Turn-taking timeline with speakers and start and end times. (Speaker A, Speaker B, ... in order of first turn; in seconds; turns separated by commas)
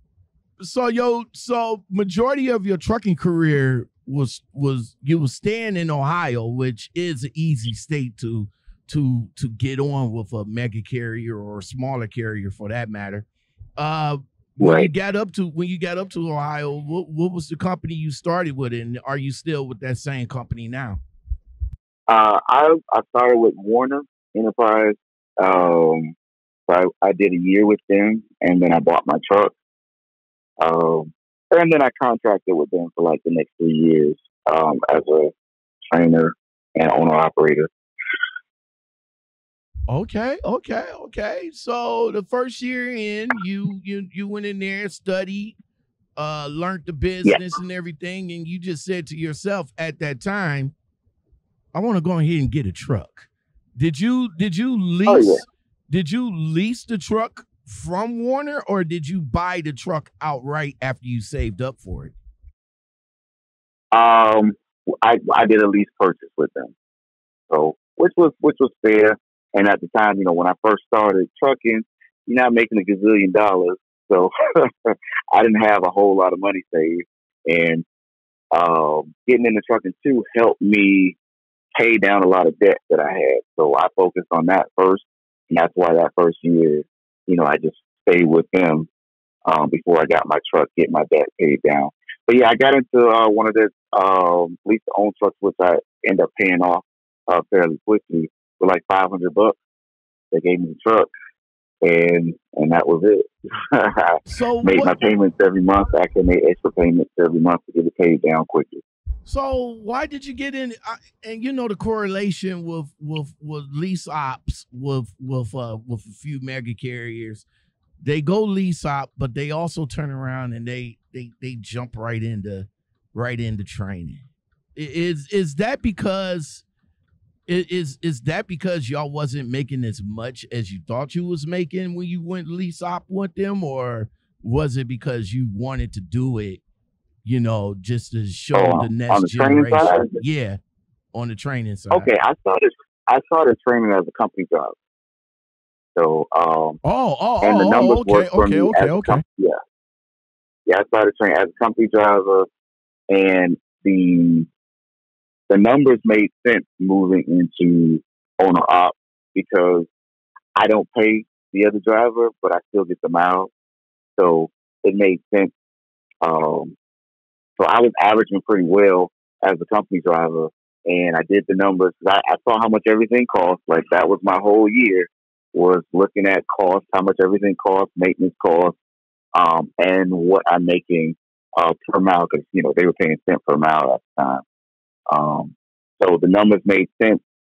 Speaker A: 0.6-13.2, Speaker A: 13.8-21.0, Speaker B: 14.6-14.9, Speaker B: 22.1-26.1, Speaker B: 26.7-29.5, Speaker B: 30.6-35.3, Speaker B: 35.9-37.7, Speaker A: 39.9-45.6, Speaker A: 46.2-50.7, Speaker B: 47.2-47.5, Speaker A: 51.7-62.1, Speaker B: 55.0-55.5, Speaker B: 63.9-66.7, Speaker B: 67.5-74.3, Speaker B: 75.3-77.8, Speaker B: 78.5-81.2, Speaker B: 81.8-88.9, Speaker B: 89.5-99.6, Speaker B: 100.3-101.1, Speaker B: 101.8-108.8, Speaker A: 104.2-104.9, Speaker A: 109.2-117.5, Speaker A: 118.0-126.6, Speaker A: 127.5-136.6, Speaker A: 137.2-140.6, Speaker B: 138.5-140.2, Speaker A: 141.1-142.1, Speaker B: 141.9-144.8, Speaker B: 145.9-146.8, Speaker A: 146.8-149.2, Speaker B: 147.4-149.6, Speaker B: 150.7-152.5, Speaker B: 153.1-154.5, Speaker B: 155.5-159.9, Speaker B: 160.6-163.5, Speaker B: 164.2-165.5, Speaker B: 166.2-166.8, Speaker B: 167.6-178.8, Speaker B: 179.3-184.4, Speaker B: 185.1-187.2